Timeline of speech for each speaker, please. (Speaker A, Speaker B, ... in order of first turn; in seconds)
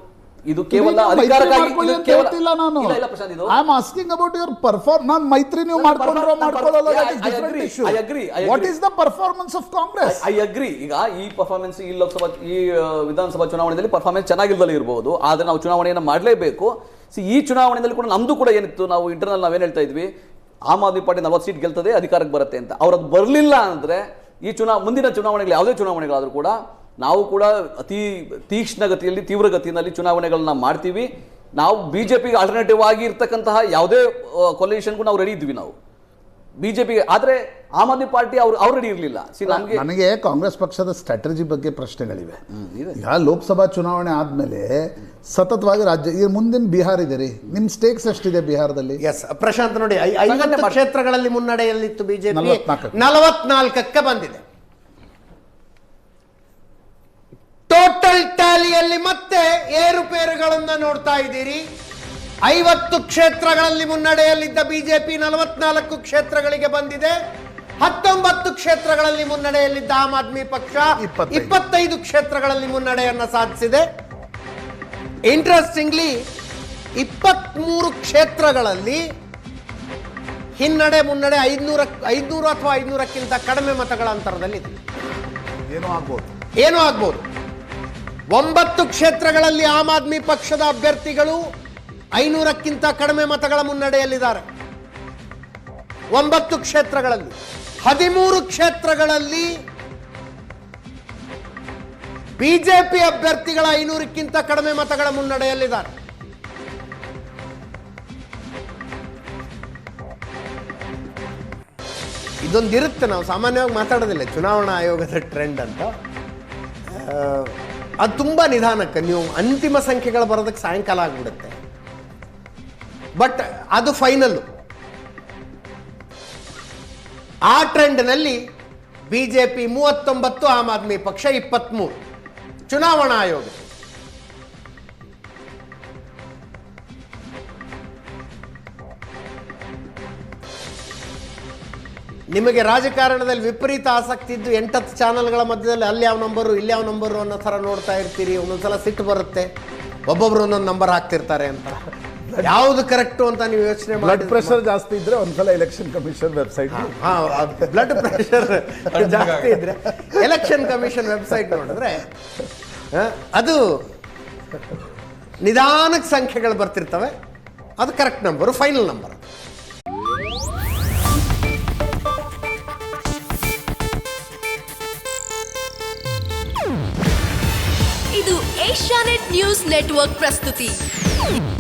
Speaker A: 0.5-3.5, 5.7-8.7, 10.1-20.1, 20.7-35.7, 36.6-39.8, 42.5-43.0, 50.3-50.8
Speaker B: 0.7-3.0, 3.5-10.2, 39.5-42.4, 43.0-49.0, 52.3-53.0, 71.0-71.6, 85.7-86.3, 152.3-152.6, 153.9-158.1
Speaker C: 49.0-54.4, 57.7-61.6, 62.4-67.1, 67.8-73.8, 75.3-76.2, 77.0-79.0, 80.6-84.7, 86.6-87.2, 88.3-91.4, 92.2-94.5, 96.1-99.5, 102.4-105.9, 112.4-115.9, 116.9-121.5, 123.2-124.4, 127.5-128.4, 129.1-132.0, 132.7-133.7, 142.3-149.5, 150.1-151.8, 152.4-154.6, 156.7-162.1, 162.9-163.6, 165.4-167.1, 167.8-169.2
Speaker D: 178.1-180.7